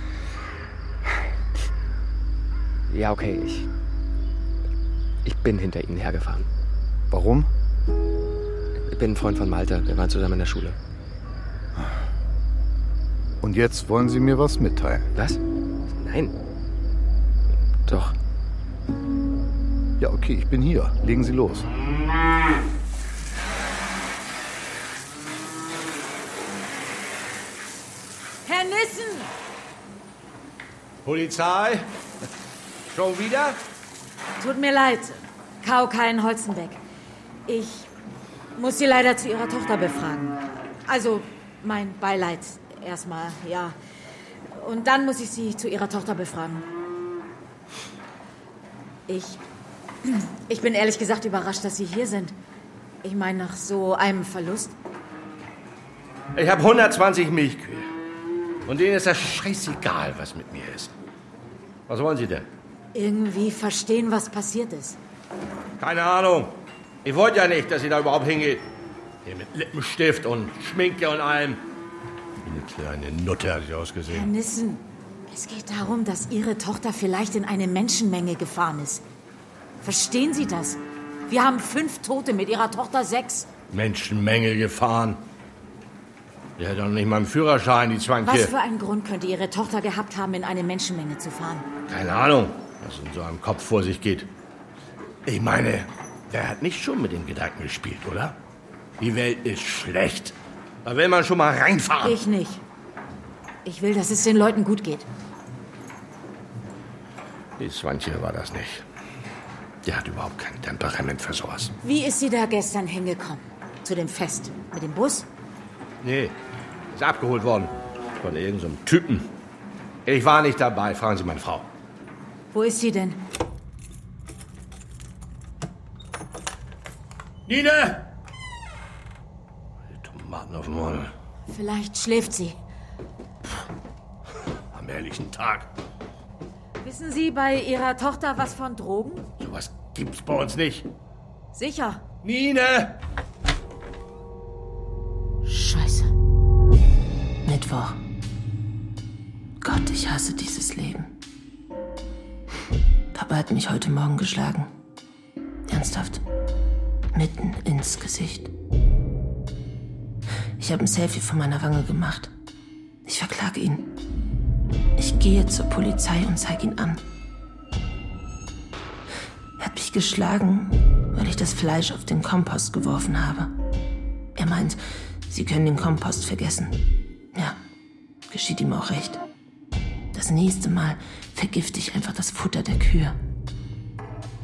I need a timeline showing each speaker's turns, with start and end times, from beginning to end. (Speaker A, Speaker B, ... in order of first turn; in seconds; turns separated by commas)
Speaker A: 2.9-3.7, Speaker A: 5.2-6.5, Speaker B: 7.1-7.5, Speaker A: 8.8-10.8, Speaker B: 13.4-15.1, Speaker A: 15.1-16.3, Speaker A: 17.8-18.1, Speaker B: 20.0-21.7, Speaker C: 28.4-29.3, Speaker D: 31.0-31.9, Speaker D: 32.9-33.6, Speaker C: 34.4-36.8, Speaker C: 37.5-37.9, Speaker C: 38.5-43.8, Speaker C: 44.5-46.6, Speaker C: 49.1-49.4, Speaker C: 50.0-52.4, Speaker C: 53.0-54.7, Speaker D: 56.3-57.9, Speaker D: 58.6-60.9, Speaker D: 61.9-62.5, Speaker C: 62.9-65.0, Speaker D: 65.8-68.6, Speaker D: 69.2-71.6, Speaker D: 72.4-74.3, Speaker C: 74.1-79.0, Speaker C: 79.8-83.5, Speaker D: 83.7-85.2, Speaker D: 86.6-88.5, Speaker C: 88.2-91.7, Speaker D: 91.9-94.3, Speaker D: 95.2-98.4, Speaker D: 99.0-100.3, Speaker D: 100.8-102.2, Speaker C: 102.0-102.6, Speaker C: 103.6-105.0, Speaker D: 107.6-108.8, Speaker D: 109.8-111.7, Speaker C: 111.8-115.2, Speaker D: 116.0-116.3, Speaker D: 116.9-119.3, Speaker D: 120.0-121.7, Speaker C: 122.5-123.2, Speaker D: 127.5-128.1, Speaker D: 129.9-131.1, Speaker C: 131.5-132.6, Speaker D: 134.7-135.7, Speaker C: 136.8-139.3, Speaker D: 139.4-140.9, Speaker C: 141.5-142.1, Speaker D: 142.2-142.9, Speaker C: 145.4-146.1, Speaker E: 147.4-148.0, Speaker E: 149.6-151.1, Speaker E: 153.1-154.7, Speaker E: 155.7-156.2, Speaker E: 157.1-158.5, Speaker E: 160.6-162.3, Speaker E: 163.0-163.9, Speaker E: 165.0-167.0, Speaker E: 169.6-173.5, Speaker E: 174.3-177.6, Speaker E: 178.3-179.2, Speaker E: 180.1-183.2